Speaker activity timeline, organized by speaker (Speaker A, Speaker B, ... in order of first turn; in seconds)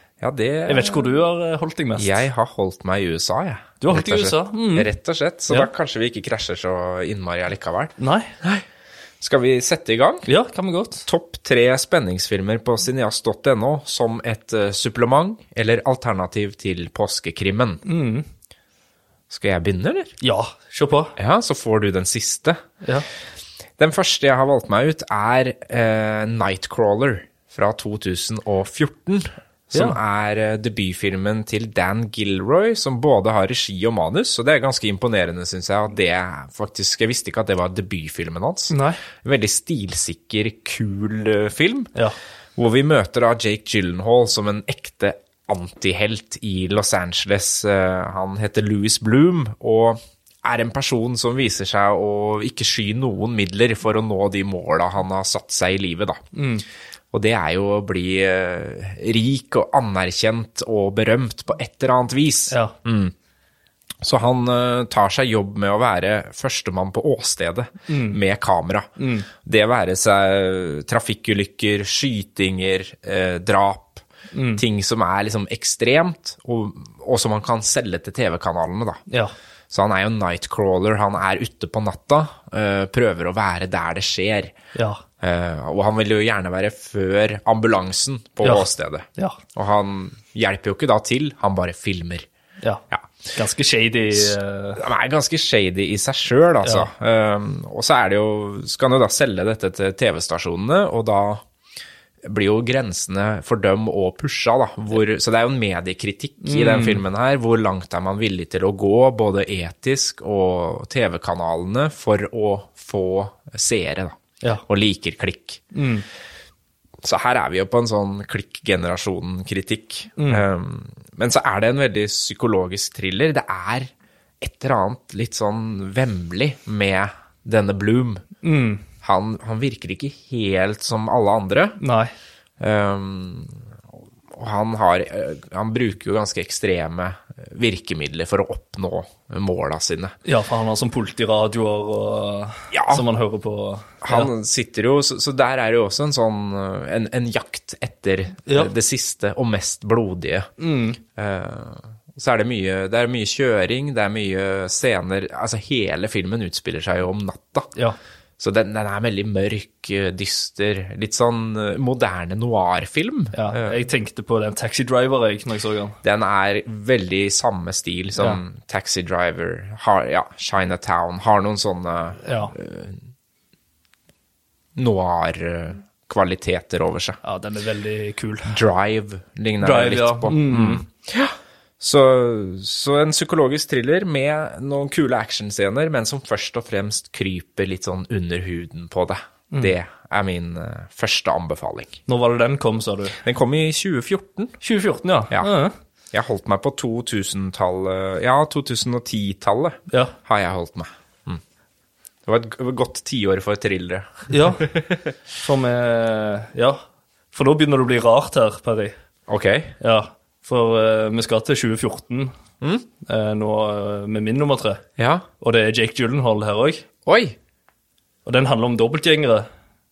Speaker A: 0.2-1.1, 2.0-8.6, 9.2-10.3, 11.1-17.8, 19.3-20.1, 21.2-22.6, 23.8-41.9, 42.5-56.2, 57.1-63.1, 64.0-74.0, 74.6-79.0, 79.7-84.5, 85.2-92.3, 92.9-93.2, 94.1-101.4, 102.2-115.6, 117.0-128.2, 129.0-131.8, 132.6-133.6, 134.3-140.1, 142.7-143.0, 144.0-150.5, 151.2-157.7, 158.4-163.8, 166.0-173.0, 174.8-177.2, 178.5-192.0, 193.2-194.5, 196.1-201.4, 202.2-205.1, 209.3-209.7, 215.0-215.2, 217.1-217.3
Speaker B: 0.7-2.2, 3.8-4.9, 8.0-8.3, 10.2-11.1, 17.8-18.3, 20.2-21.1, 22.8-23.1, 38.7-39.0, 56.3-56.6, 62.5-62.8, 67.9-68.2, 69.0-69.3, 74.3-74.6, 84.7-85.0, 88.4-89.4, 93.3-94.8, 96.6-96.9, 106.4-107.0, 115.7-116.0, 120.2-120.4, 128.4-128.8, 131.8-132.1, 140.2-144.3, 148.5-148.7, 150.6-151.0, 163.3-166.0, 172.2-172.5, 177.2-178.6, 179.6-180.8, 192.1-193.2, 194.6-195.7, 204.3-204.7, 205.4-206.8, 207.3-208.9, 209.8-212.3, 213.0-214.8, 215.4-216.8, 218.2-219.5